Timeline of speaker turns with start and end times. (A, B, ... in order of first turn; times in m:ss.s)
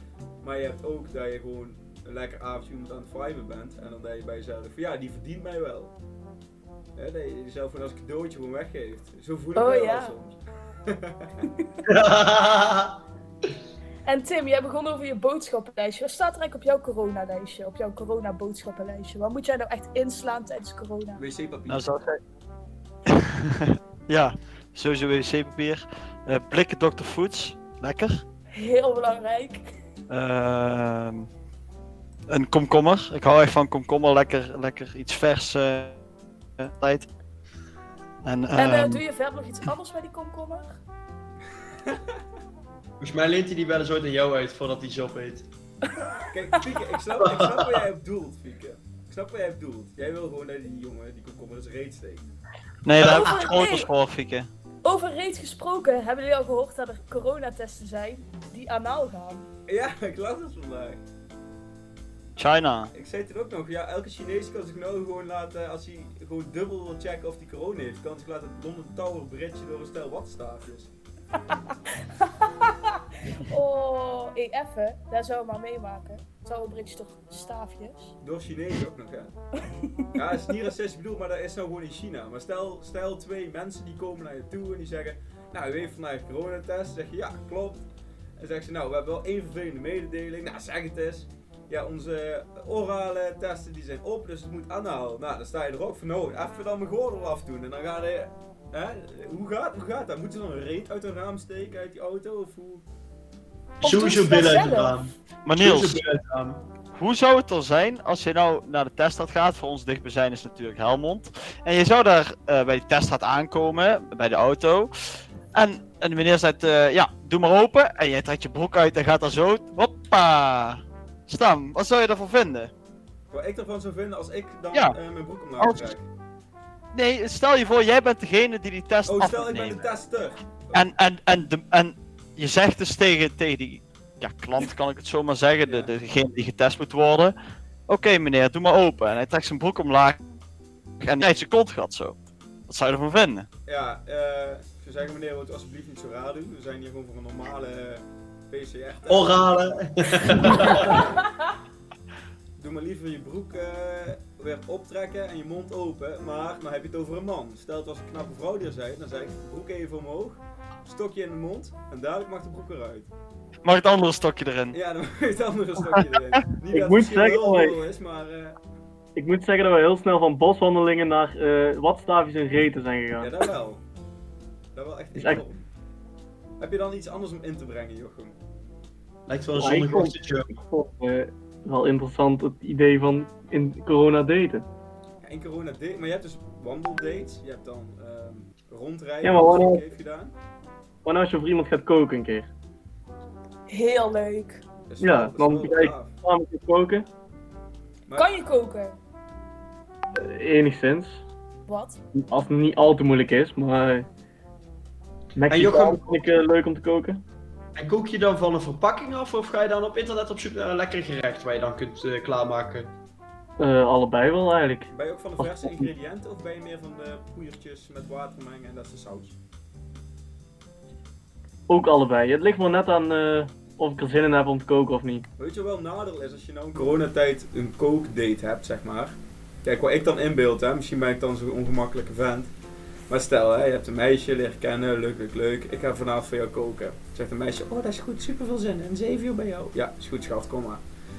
0:00.4-0:05.9 A
0:07.0-0:11.4 A
0:09.5-0:10.1 B
0:11.8-0:13.0 C
0:14.0-0:21.2 B
0:21.2-0:21.8 A
0:21.7-0:22.2 D
0:23.1-0:28.2 D
0:28.5-0:29.7 B
0:30.1-0:31.3 D
0:32.3-0:36.0 D
0:36.6-0:37.1 D
0:38.2-0:39.0 D
0:38.5-0:40.8 B
0:41.8-0:42.2 A
0:43.0-0:45.5 C
0:46.2-0:52.3 A
0:47.2-0:47.8 C
0:52.8-0:54.5 D
0:53.0-0:53.9 B
0:54.8-0:59.5 B
0:59.7-1:01.0 A
1:02.4-1:02.9 D
1:02.9-1:10.9 A
1:12.4-1:18.1 B
1:18.2-1:19.4 A
1:19.8-1:20.1 B
1:20.1-1:27.8 A
1:28.4-1:42.8 A
1:43.8-1:46.6 C
1:43.8-1:45.1 B
1:45.4-1:46.0 D
1:46.9-1:54.9 D
1:55.5-2:02.7 D
2:03.3-2:06.0 A
2:04.7-2:05.0 D
2:05.6-2:05.9 D
2:06.9-2:09.9 D
2:09.0-2:10.8 A
2:10.7-2:17.3 D
2:15.6-2:15.9 A
2:17.9-2:20.2 D
2:21.0-2:23.5 D
2:23.7-2:29.5 A
2:29.1-2:31.1 C
2:30.2-2:31.2 A
2:32.6-2:43.1 A
2:43.6-2:44.8 D
2:44.7-2:48.6 A
2:46.0-2:46.4 D
2:46.7-2:47.8 E
2:49.2-2:53.4 E
2:53.2-2:53.8 A
2:54.7-2:55.6 A
2:55.2-2:55.4 E
2:56.6-2:58.4 A
2:59.3-3:00.6 C
2:59.6-3:04.6 E
3:05.2-3:10.3 A
3:09.2-3:09.8 E
3:11.0-3:12.5 E
3:13.7-3:14.6 B
3:14.9-3:16.1 A
3:15.0-3:17.1 E
3:18.1-3:18.3 A
3:18.2-3:19.0 B
3:20.1-3:21.2 E
3:21.7-3:22.0 B
3:22.1-3:24.1 E
3:25.4-3:27.2 E
3:25.5-3:26.3 C
3:27.8-3:32.9 C
3:33.6-3:35.9 E
3:34.9-3:39.4 A
3:41.7-3:45.3 E
3:45.4-3:52.5 A
3:53.1-4:00.8 A